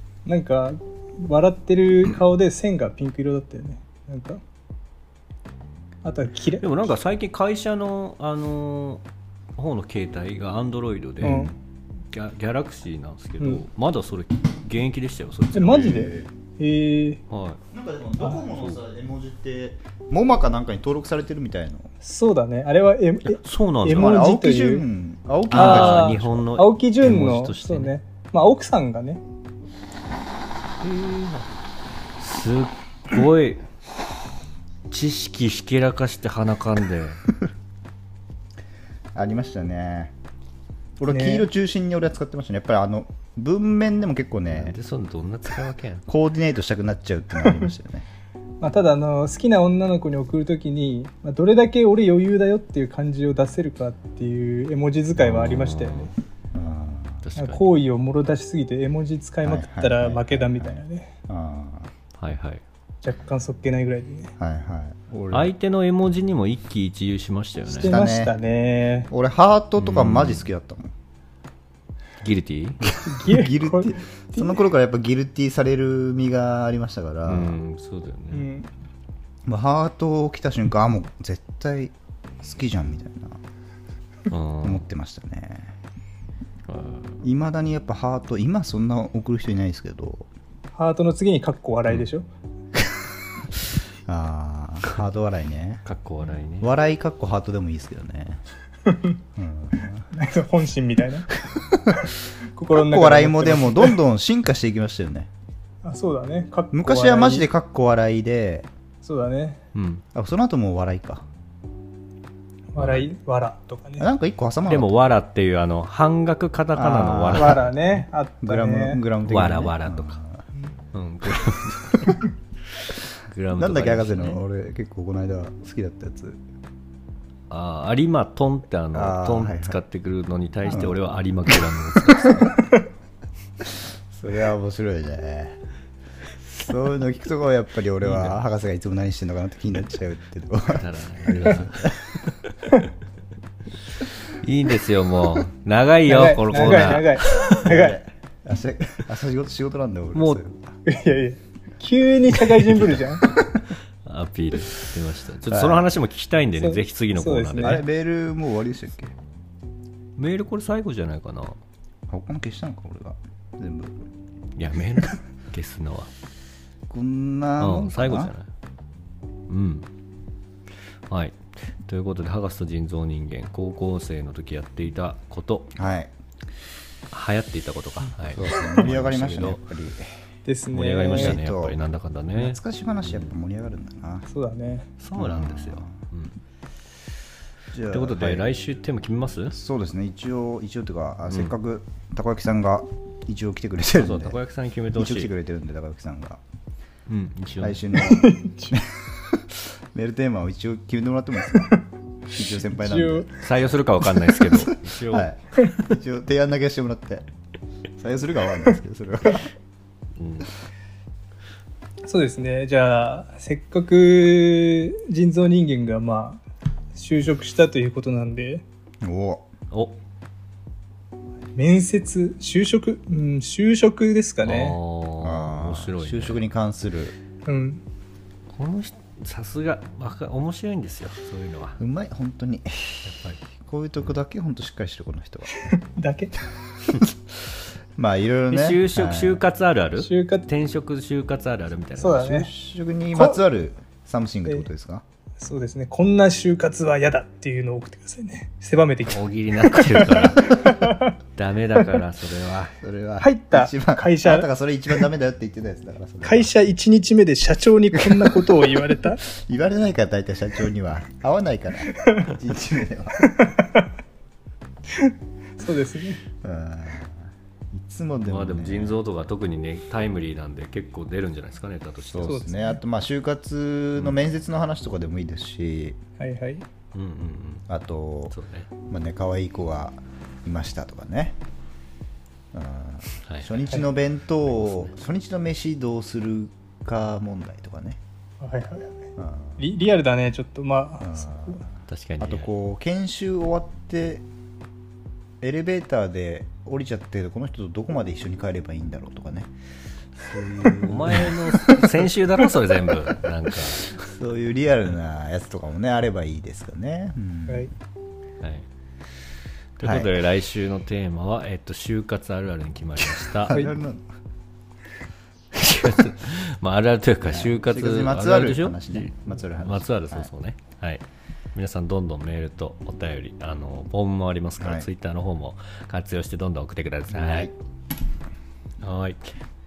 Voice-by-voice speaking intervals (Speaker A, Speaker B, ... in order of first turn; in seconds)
Speaker A: 0.2-4.4, 6.0-6.6, 11.2-11.5, 15.5-17.2, 22.0-24.9, 25.5-29.2, 41.0-41.5, 48.6-56.1, 57.4-61.1, 63.0-64.3, 67.7-69.1, 73.0-74.6, 78.3-78.7, 90.7-92.2, 98.9-99.2, 100.1-104.0, 105.8-107.5, 109.0-109.6, 112.7-114.1, 117.3-119.0, 146.1-148.0, 150.8-153.3, 156.6-157.8, 180.4-181.4, 184.3-184.9, 197.9-198.8, 201.6-201.8, 202.3-203.3, 212.1-216.4, 216.9-218.6, 221.6-224.8, 227.4-227.8, 235.5-236.3, 240.0-240.5, 242.0-242.5, 245.4-251.1, 253.2-254.5, 256.2-259.2, 261.9-262.3, 263.2-263.8, 264.9-266.2, 272.2-272.8, 276.2-276.6, 288.4-291.6
Speaker B: 6.6-9.0, 9.6-11.5, 12.1-16.1, 17.3-17.6, 18.5-18.8, 23.3-24.2, 25.5-27.9, 30.8-31.5, 32.2-33.6, 34.9-37.2, 44.5-46.0, 55.2-56.1, 57.2-57.6, 62.2-62.6, 65.3-67.9, 69.8-70.5, 72.2-72.8, 77.2-78.5, 84.3-84.9, 86.7-87.2, 95.8-96.7, 109.7-110.0, 112.8-113.1, 114.7-117.7, 119.2-120.2, 120.9-122.2, 122.8-124.4, 127.5-132.5, 138.0-138.4, 140.7-141.9, 144.4-147.6, 150.1-150.4, 152.6-153.0, 153.7-157.8, 160.2-161.6, 164.6-166.1, 167.6-168.5, 169.5-169.9, 171.1-175.7, 177.1-179.6, 180.7-182.6, 185.0-186.3, 187.9-189.5, 193.9-195.3, 197.1-197.9, 203.4-205.9, 210.2-210.5, 219.7-219.9, 224.4-226.4, 228.5-231.8, 233.0-233.4, 238.5-242.3, 249.1-250.6, 251.3-252.7, 268.3-272.5, 276.9-277.6, 278.3-278.7, 283.2-283.5, 284.6-284.9, 291.9-292.5, 300.4-303.9, 308.4-308.6, 309.8-313.6, 315.5-321.0, 321.5-327.5, 328.8-329.4
Speaker C: 11.2-11.5, 17.7-21.9, 23.9-26.4, 39.1-40.1, 41.0-44.8, 46.1-48.0, 56.5-57.2, 59.4-61.9, 64.4-65.5, 67.8-68.3, 69.1-70.9, 72.8-77.6, 79.4-83.4, 84.6-85.7, 87.2-90.3, 94.0-95.8, 96.6-98.4, 99.3-100.1, 101.5-101.8, 102.7-105.3, 106.7-108.7, 110.1-111.2, 114.0-114.9, 116.7-117.7, 118.4-120.4, 123.5-126.4, 128.9-129.8, 130.7-131.0, 132.1-132.5, 134.1-135.6, 136.5-142.0, 146.5-150.7, 155.5-155.9, 157.6-159.1, 162.1-164.0, 166.9-168.3, 175.7-176.1, 178.3-180.1, 181.0-181.8, 182.3-184.3, 185.2-185.9, 187.7-188.5, 189.5-194.4, 194.9-196.4, 197.6-201.7, 202.3-203.3, 204.5-207.2, 208.0-209.5, 219.0-219.5, 225.2-227.2, 231.8-233.1, 233.6-235.6, 237.0-239.4, 242.2-245.0, 252.8-256.5, 257.9-258.4, 259.2-263.3, 266.4-269.0, 272.1-276.0, 277.7-281.4, 282.5-288.0, 289.2-289.6, 291.0-291.7, 292.2-294.2, 295.4-299.5, 300.3-301.4, 303.9-307.7, 309.8-310.1, 313.0-314.1, 317.2-320.3, 324.6-324.9, 327.1-327.5